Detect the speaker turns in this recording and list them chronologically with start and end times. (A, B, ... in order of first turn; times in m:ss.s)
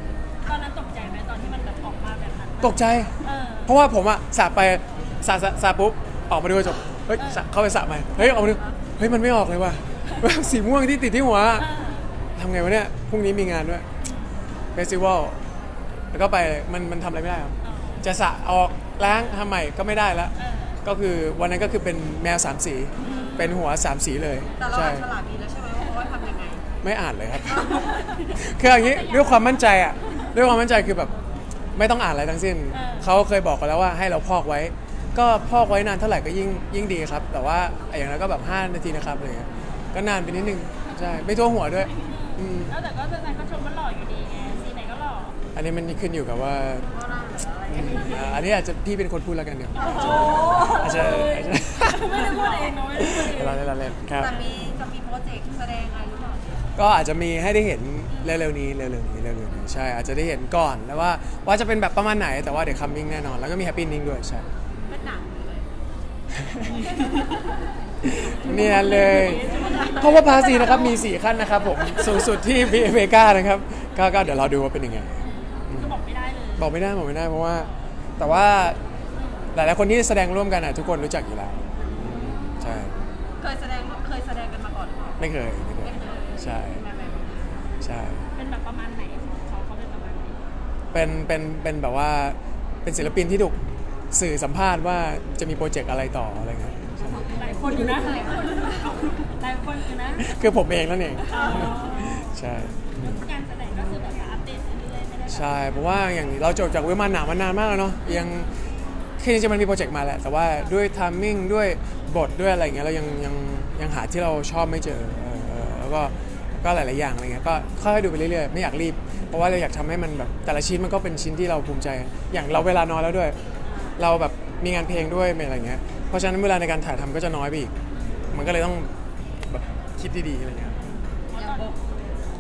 0:00.4-0:03.8 A
0:02.6-0:11.7 B
0:07.2-0:07.5 A
0:08.3-0:08.8 C
0:11.6-0:12.1 A
0:12.4-0:13.9 B
0:14.0-0:14.4 A
0:14.8-0:15.4 B
0:16.1-0:25.1 B
0:17.6-0:18.0 A
0:20.4-0:20.8 A
0:23.0-0:23.6 A
0:24.6-0:26.6 C
0:26.8-0:31.1 B
0:27.4-0:28.2 C
0:27.7-0:30.3 A
0:31.8-0:42.7 B
0:32.7-0:33.1 A
0:41.8-0:45.4 A
0:45.5-0:46.9 B
0:46.9-0:48.4 C
0:47.7-0:52.3 B
0:47.8-0:48.2 A
0:49.8-0:53.6 A
0:49.9-0:50.6 C
0:52.2-0:52.8 C
0:53.0-0:54.3 B
0:54.1-0:56.7 C
0:56.8-1:04.5 B
1:04.8-1:05.7 C
1:06.4-1:06.9 B
1:06.8-1:07.2 A
1:08.0-1:16.0 B
1:08.1-1:11.0 A
1:09.5-1:10.0 C
1:11.8-1:12.1 C
1:15.2-1:15.6 C
1:15.7-1:16.7 A
1:16.6-1:18.8 B
1:17.6-1:17.9 A
1:19.2-1:19.5 A
1:19.5-1:22.9 B
1:21.8-1:22.2 C
1:23.4-1:25.3 C
1:25.2-1:26.8 B
1:25.8-1:27.7 C
1:27.8-1:28.2 B
1:28.4-1:30.4 A
1:30.9-1:33.6 B
1:34.1-1:37.3 B
1:37.1-1:40.4 A
1:37.1-1:39.0 C
1:40.2-1:43.2 B
1:41.2-1:45.6 A
1:41.4-1:41.8 C
1:45.3-1:48.5 B
1:49.2-2:03.4 B
2:03.7-2:04.0 A
2:04.0-2:07.7 B
2:08.0-2:08.2 A
2:08.3-2:08.9 B
2:09.5-2:10.8 B
2:10.8-2:11.8 A
2:11.3-2:11.9 C